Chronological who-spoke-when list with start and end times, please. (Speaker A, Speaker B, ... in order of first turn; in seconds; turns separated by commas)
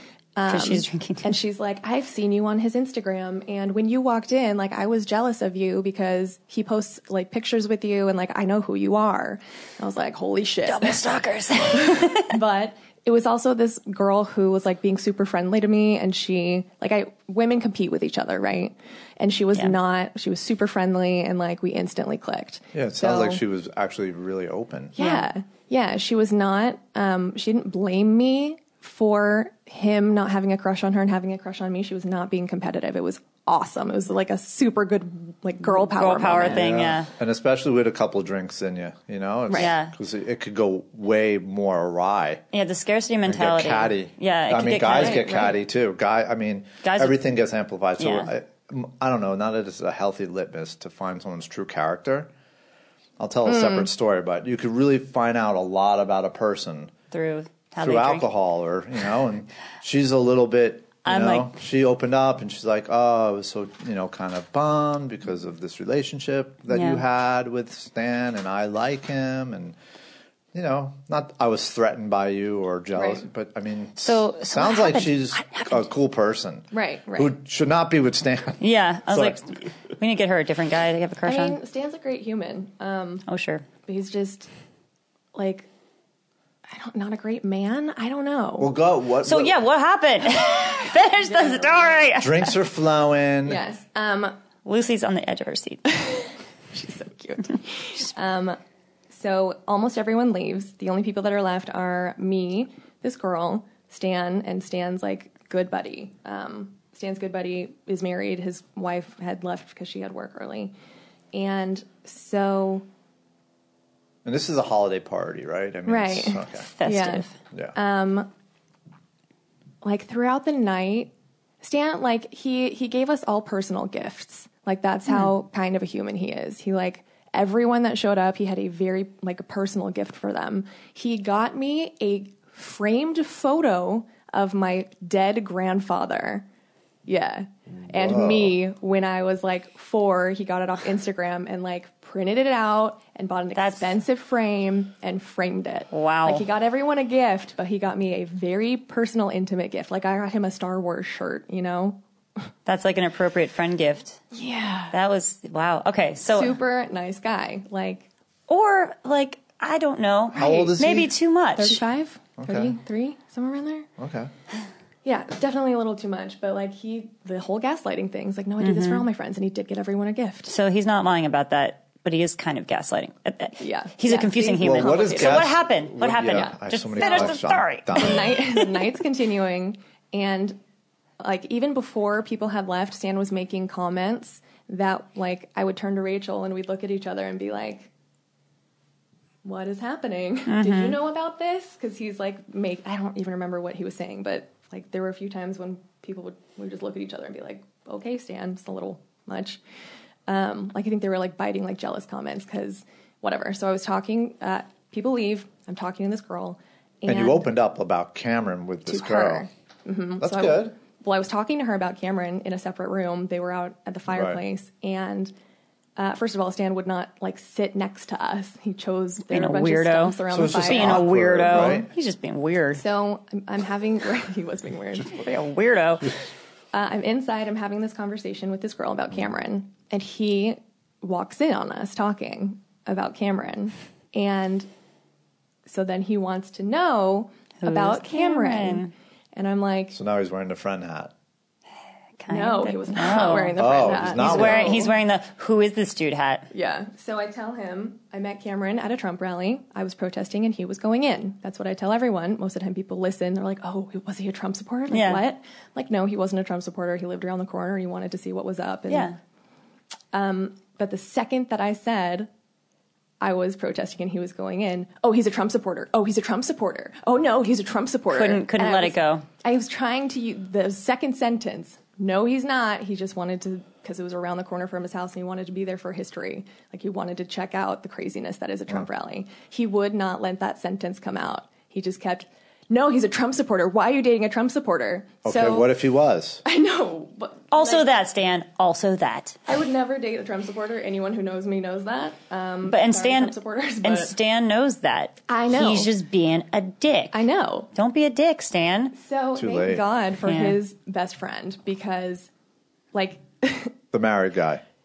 Speaker A: 0.4-11.0, Speaker B: 0.5-1.4, Speaker B: 10.7-12.3, Speaker A: 11.6-23.4, Speaker C: 22.7-25.0, Speaker A: 25.0-36.6, Speaker B: 25.0-25.3, Speaker B: 35.7-37.1, Speaker C: 36.4-42.5, Speaker B: 39.5-40.0, Speaker B: 42.5-45.5, Speaker C: 43.3-52.3, Speaker A: 44.9-45.6, Speaker B: 46.8-47.2, Speaker B: 48.0-48.3, Speaker C: 53.2-56.9, Speaker A: 53.5-53.9, Speaker B: 57.1-58.3, Speaker C: 57.8-69.8, Speaker B: 61.0-61.5, Speaker B: 66.7-67.0, Speaker C: 70.5-79.4, Speaker A: 73.0-73.2, Speaker B: 74.0-75.8, Speaker A: 76.7-77.3, Speaker B: 78.6-81.6, Speaker A: 81.2-83.2, Speaker B: 83.3-83.7, Speaker A: 83.9-84.5, Speaker A: 85.3-85.7, Speaker A: 86.7-88.7, Speaker C: 88.6-89.6, Speaker B: 89.2-92.5, Speaker A: 91.3-91.9, Speaker C: 92.2-93.6, Speaker A: 93.5-94.3, Speaker B: 94.7-95.8, Speaker A: 96.0-98.6, Speaker A: 99.1-110.7, Speaker A: 111.3-112.8, Speaker C: 114.2-116.7, Speaker A: 115.9-118.3, Speaker B: 116.7-117.4, Speaker A: 119.8-136.5, Speaker A: 137.1-152.0, Speaker C: 137.9-138.6, Speaker B: 143.6-143.9, Speaker B: 145.9-146.5, Speaker B: 152.7-154.2, Speaker A: 154.3-154.9, Speaker B: 154.9-156.6, Speaker A: 156.3-158.1, Speaker B: 158.5-161.8, Speaker C: 160.3-161.1, Speaker A: 160.4-160.8, Speaker A: 161.6-163.9, Speaker C: 162.4-162.8, Speaker C: 164.0-164.3, Speaker A: 165.1-170.5, Speaker B: 168.6-169.1, Speaker B: 170.5-178.9, Speaker A: 173.6-175.5, Speaker C: 174.6-178.4, Speaker A: 176.4-177.4, Speaker A: 177.9-180.6, Speaker A: 181.2-187.9, Speaker A: 189.4-199.6, Speaker B: 190.5-191.0, Speaker A: 200.3-207.5, Speaker C: 207.1-209.5, Speaker A: 208.9-215.3, Speaker C: 210.2-210.8, Speaker C: 214.1-214.4, Speaker A: 216.0-221.1, Speaker B: 219.3-222.8, Speaker C: 220.3-221.9, Speaker A: 222.8-225.3, Speaker B: 225.1-226.1, Speaker A: 226.7-234.7, Speaker A: 235.7-240.0, Speaker B: 237.6-238.9, Speaker C: 239.9-241.1, Speaker B: 242.2-246.5, Speaker A: 242.3-244.9, Speaker C: 243.6-244.9, Speaker A: 246.5-259.2, Speaker B: 254.9-255.2, Speaker B: 258.9-259.1, Speaker A: 260.1-262.3, Speaker A: 263.2-285.7, Speaker B: 268.1-269.2, Speaker C: 285.2-286.4, Speaker A: 286.4-287.9, Speaker B: 287.5-289.4, Speaker A: 289.5-294.1, Speaker B: 292.6-297.2, Speaker A: 295.3-295.9, Speaker A: 297.1-297.7, Speaker B: 297.8-298.9, Speaker A: 298.9-302.3, Speaker C: 299.4-299.8, Speaker B: 300.2-300.6, Speaker A: 302.9-303.7, Speaker C: 303.9-304.6